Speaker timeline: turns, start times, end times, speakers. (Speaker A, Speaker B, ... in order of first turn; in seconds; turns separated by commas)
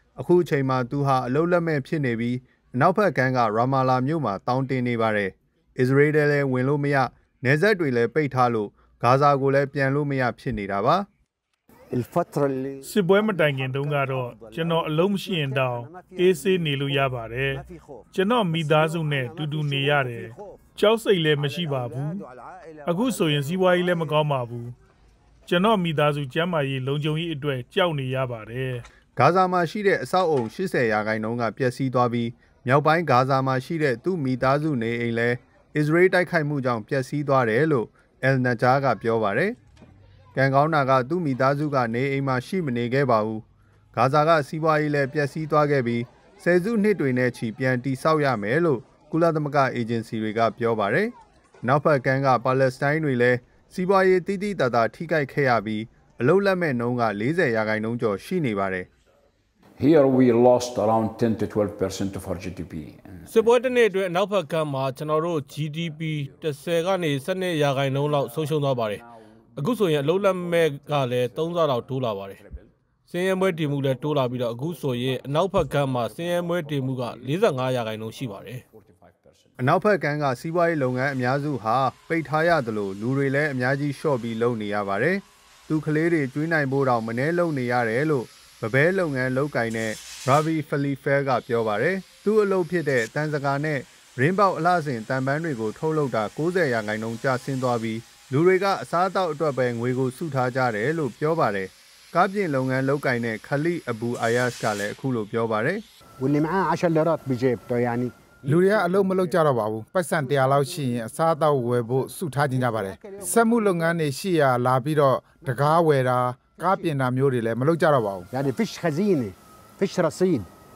Speaker A: 0.2-11.1, Speaker B: 11.9-20.6, Speaker C: 12.8-22.2, Speaker B: 21.4-24.2, Speaker C: 22.9-24.7, Speaker C: 25.5-28.8, Speaker A: 29.2-39.6, Speaker A: 40.3-43.4, Speaker A: 44.0-58.9, Speaker D: 59.8-63.6, Speaker E: 63.3-72.4, Speaker E: 73.1-78.6, Speaker A: 79.6-105.8, Speaker B: 106.2-109.4, Speaker F: 108.5-118.3, Speaker B: 110.1-114.0, Speaker B: 115.4-115.9, Speaker B: 116.6-116.9, Speaker B: 118.3-120.5